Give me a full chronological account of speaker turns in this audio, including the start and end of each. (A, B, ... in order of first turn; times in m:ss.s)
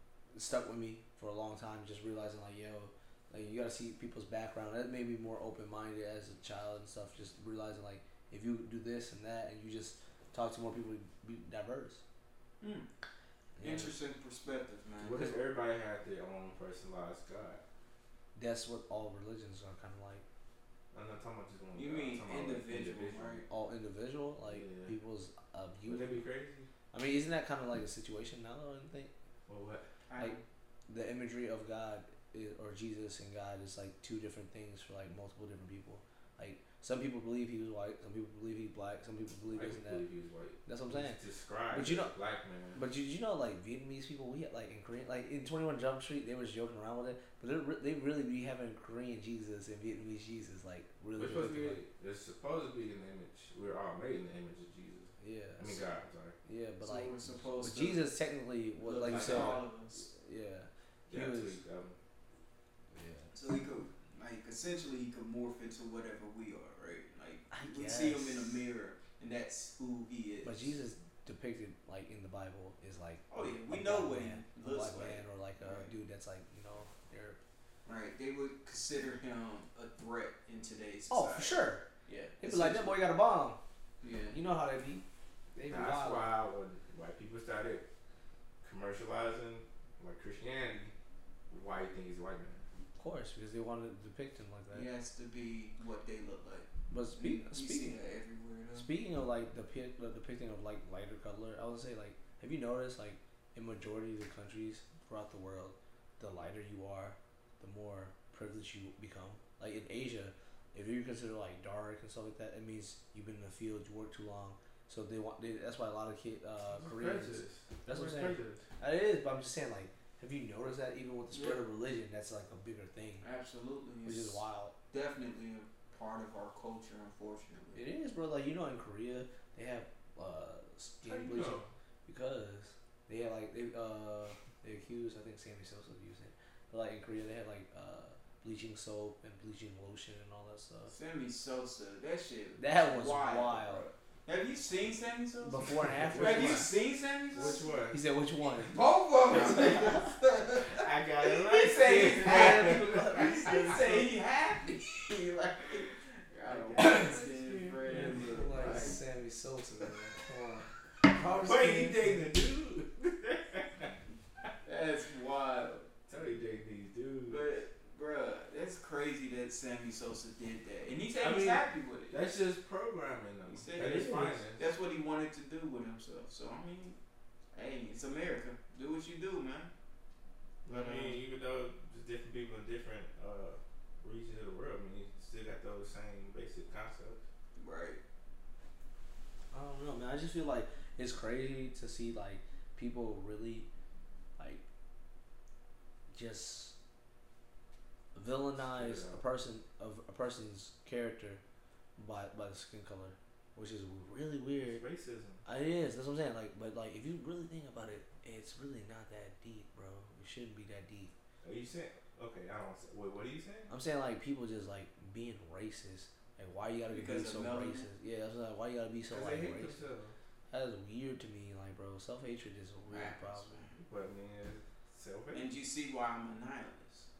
0:00.3-0:12.0 A
0:12.6-0:12.9 B
0:13.6-0:13.9 A
0:13.6-0:15.3 B
0:15.0-0:17.6 C
0:15.1-0:15.4 A
0:18.3-0:20.2 A
0:20.9-0:23.4 C
0:21.7-0:23.4 B
0:23.5-0:26.2 A
0:24.4-0:24.9 C
0:25.8-0:26.7 C
0:26.9-0:29.1 A
0:29.5-0:29.8 C
0:30.1-0:30.4 B
0:30.9-0:40.0 A
0:39.5-0:42.8 C
0:40.6-0:41.2 A
0:41.7-0:42.1 A
0:42.7-0:51.8 A
0:51.2-0:56.4 C
0:55.2-0:55.9 A
0:56.4-1:01.6 A
0:56.8-0:58.0 B
0:58.8-1:00.1 B
0:59.0-0:59.6 C
1:01.1-1:02.0 C
1:02.9-1:03.3 A
1:03.3-1:10.7 B
1:07.5-1:08.6 A
1:10.4-1:17.4 A
1:13.3-1:15.9 B
1:17.8-1:23.0 B
1:21.1-1:21.8 A
1:22.4-1:23.6 A
1:24.0-1:24.4 B
1:24.3-1:25.0 A
1:25.5-1:26.3 A
1:25.6-1:27.8 C
1:28.6-1:30.9 C
1:31.5-1:32.6 C
1:33.0-1:34.9 A
1:34.7-1:38.9 B
1:36.9-1:38.0 A
1:38.7-2:03.2 A
1:56.7-1:58.6 C
2:01.3-2:01.6 B
2:03.2-2:04.4 B
2:04.0-2:04.7 A
2:04.9-2:07.8 B
2:07.8-2:20.9 A
2:11.0-2:11.7 C
2:20.9-2:27.8 B
2:22.6-2:23.9 A
2:25.4-2:26.7 A
2:26.0-2:26.7 C
2:27.3-2:28.0 C
2:27.4-2:28.8 A
2:28.5-2:39.0 B
2:29.3-2:29.8 C
2:30.7-2:33.5 C
2:32.0-2:34.0 A
2:36.5-2:38.9 C
2:36.8-2:37.2 A
2:37.8-2:42.3 A
2:41.3-2:43.9 C
2:44.6-2:45.9 B
2:46.1-2:47.5 C
2:47.3-2:52.3 B
2:51.2-2:54.6 C
2:53.4-2:57.0 B
2:57.5-2:59.7 B
3:00.6-3:07.2 C
3:00.7-3:01.2 B
3:07.6-3:08.0 B
3:09.5-3:13.7 A
3:14.4-3:14.6 A
3:16.1-3:16.7 A
3:18.1-3:21.4 A
3:18.6-3:19.2 C
3:22.0-3:24.8 A
3:24.6-3:25.4 C
3:25.4-3:31.1 A
3:31.4-3:33.7 C
3:33.7-3:39.8 A
3:36.9-3:37.9 B
3:39.1-3:40.1 C
3:40.5-3:43.6 A
3:42.9-3:43.8 B
3:43.8-3:45.5 C
3:45.3-3:47.1 B